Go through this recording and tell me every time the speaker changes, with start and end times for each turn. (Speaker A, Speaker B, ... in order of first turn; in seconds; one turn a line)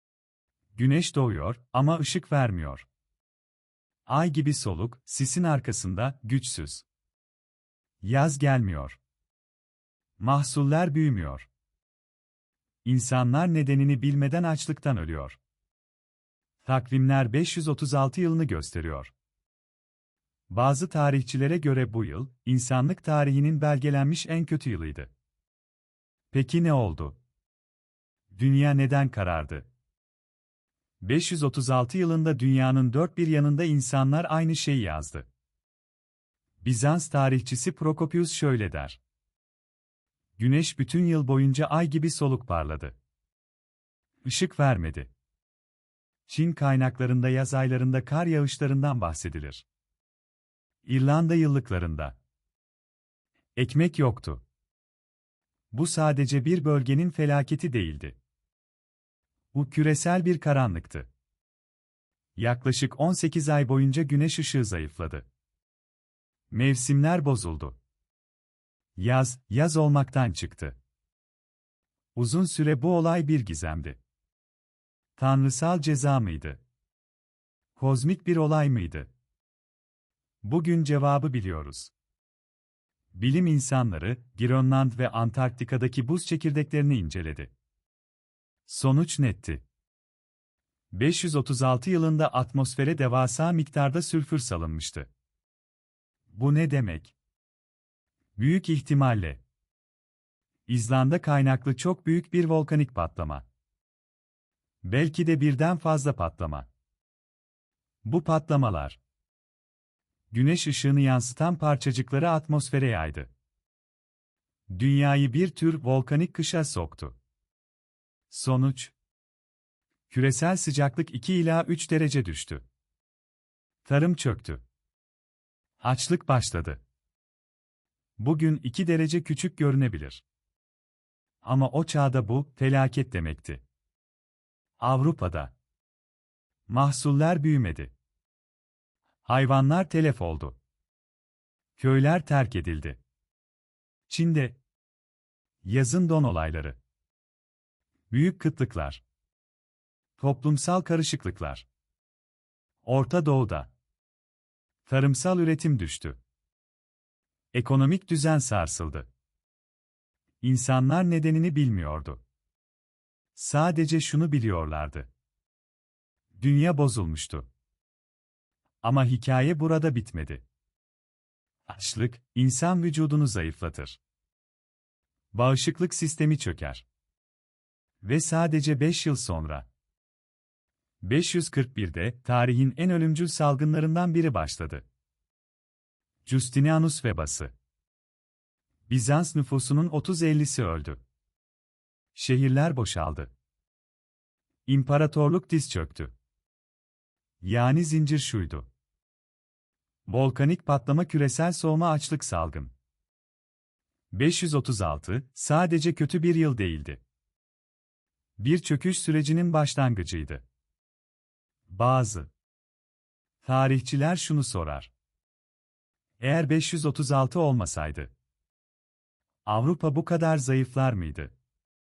Speaker A: 0.7-2.9
Speaker A: 4.1-6.8
Speaker A: 8.0-9.0
Speaker A: 10.2-11.5
Speaker A: 12.8-15.4
Speaker A: 16.6-19.1
Speaker A: 20.5-25.1
Speaker A: 26.3-27.2
Speaker A: 28.3-29.7
Speaker A: 31.0-35.3
Speaker A: 36.6-39.0
Speaker A: 40.4-43.0
Speaker A: 44.2-45.1
Speaker A: 46.3-49.6
Speaker A: 50.8-52.2
Speaker A: 53.5-54.4
Speaker A: 55.7-58.2
Speaker A: 59.5-61.1
Speaker A: 62.4-65.3
Speaker A: 66.5-67.8
Speaker A: 69.0-70.8
Speaker A: 72.1-74.0
Speaker A: 75.2-76.6
Speaker A: 77.8-79.1
Speaker A: 80.4-81.9
Speaker A: 83.1-87.5
Speaker A: 88.7-89.6
Speaker A: 90.9-95.1
Speaker A: 96.3-97.1
Speaker A: 98.4-99.4
Speaker A: 100.7-103.4
Speaker A: 104.8-106.7
Speaker A: 108.0-109.0
Speaker A: 110.3-113.3
Speaker A: 114.7-117.2
Speaker A: 118.3-118.9
Speaker A: 120.1-122.7
Speaker A: 123.8-124.6
Speaker A: 125.8-126.8
Speaker A: 128.2-130.2
Speaker A: 131.4-133.6
Speaker A: 134.8-135.5
Speaker A: 136.7-137.9
Speaker A: 139.2-140.6
Speaker A: 141.8-143.0
Speaker A: 144.1-144.6
Speaker A: 145.6-146.8
Speaker A: 148.1-149.0
Speaker A: 150.2-151.7
Speaker A: 152.8-153.7
Speaker A: 154.8-156.2
Speaker A: 157.5-159.1
Speaker A: 160.4-162.2
Speaker A: 163.3-165.1
Speaker A: 166.3-167.5
Speaker A: 168.8-170.4
Speaker A: 171.7-174.0
Speaker A: 175.3-176.8
Speaker A: 178.0-179.7
Speaker A: 181.0-184.8
Speaker A: 186.2-187.5
Speaker A: 188.9-191.0
Speaker A: 192.1-193.3
Speaker A: 194.7-196.1
Speaker A: 197.4-198.7
Speaker A: 200.1-202.7
Speaker A: 204.1-207.0
Speaker A: 208.4-210.4
Speaker A: 211.7-212.3
Speaker A: 213.4-214.9
Speaker A: 216.2-218.1
Speaker A: 219.4-221.3